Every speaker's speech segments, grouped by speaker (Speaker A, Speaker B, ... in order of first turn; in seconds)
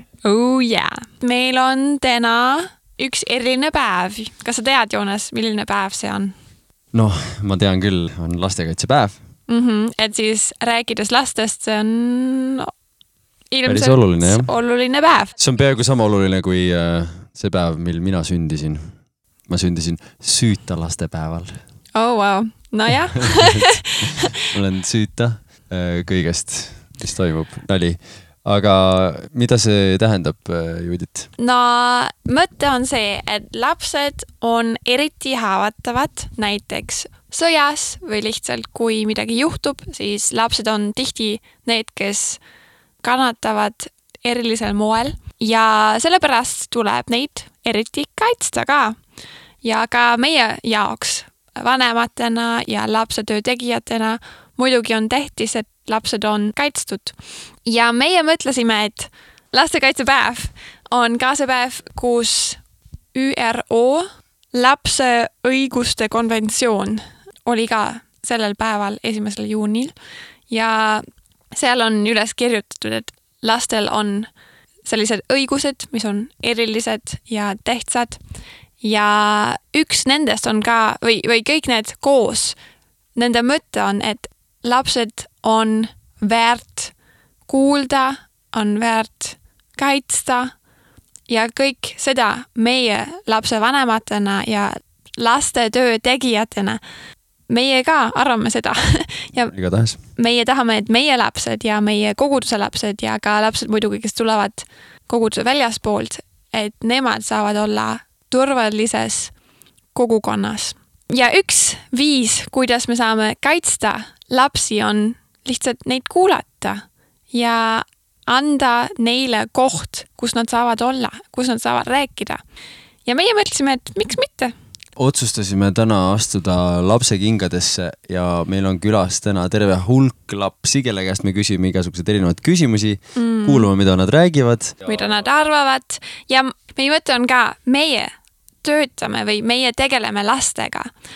Speaker A: 0.2-6.3, 9.5-12.7, 13.5-15.3, 21.9-23.8, 31.4-42.4, 43.0-49.0, 49.6-62.6, 63.1-69.9, 70.5-74.3, 74.8-78.2, 78.8-82.5, 83.2-86.9, 87.5-90.5, 91.3-96.8, 97.5-99.5, 100.2-109.3, 109.9-122.4, 123.0-124.5, 133.2-133.7, 134.8-138.1, 138.6-140.9
Speaker B: 6.9-9.2, 13.7-14.5, 15.4-18.9, 19.5-21.6, 23.1-31.3, 99.5-100.0, 125.0-134.9